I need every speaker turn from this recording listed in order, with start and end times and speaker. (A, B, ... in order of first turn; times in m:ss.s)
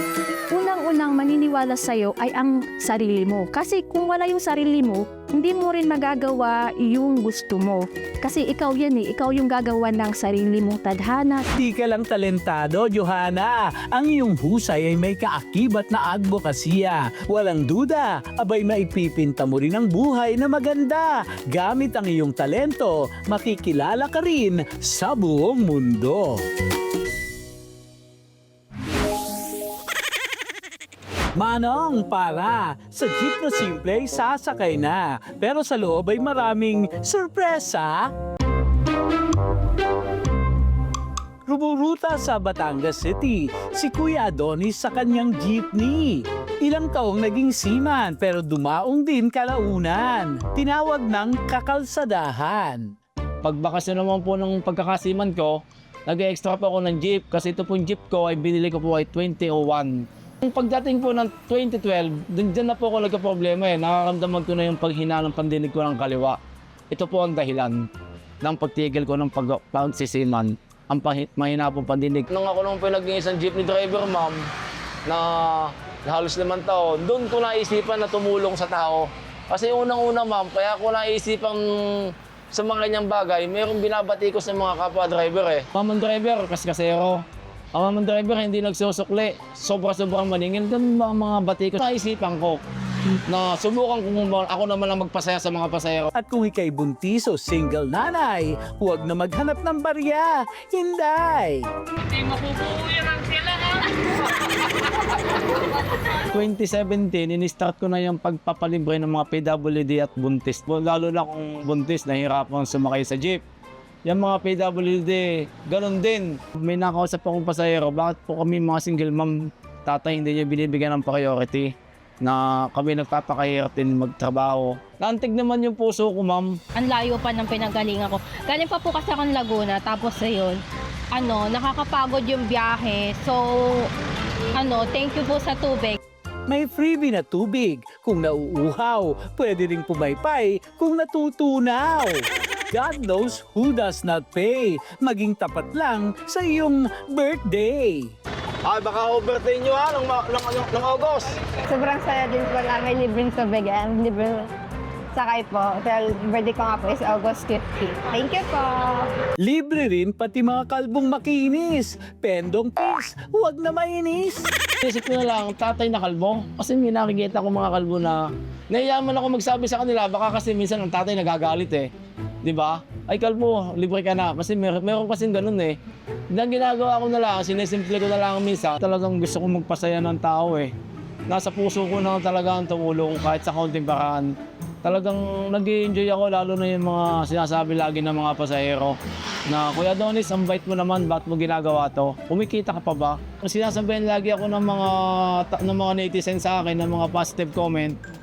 0:00.5-0:11.4 A
0:11.6-0:26.4 B
0:31.4-0:38.1 B
0:41.5-0:52.9 B
0:53.4-1:06.4 C
1:06.9-1:07.8 C
1:08.4-1:14.4 C
1:15.1-1:27.2 C
1:27.7-1:32.6 C
1:33.3-1:36.1 C
1:36.2-1:41.6 B
1:42.2-1:43.6 B
1:46.3-1:53.4 C
1:54.0-2:01.7 C
2:02.2-2:06.5 C
2:06.7-2:10.6 D
2:11.1-2:13.9 D
2:14.6-2:16.0 D
2:16.5-2:28.1 B
2:28.6-2:31.3 C
2:31.7-2:34.4 E
2:35.2-2:39.1 E
2:39.4-2:44.5 B
2:44.8-2:51.9 C
2:52.4-2:55.8 C
2:56.3-3:00.7 C
3:01.3-3:04.3 C
3:04.8-3:09.0 C
3:09.5-3:18.0 C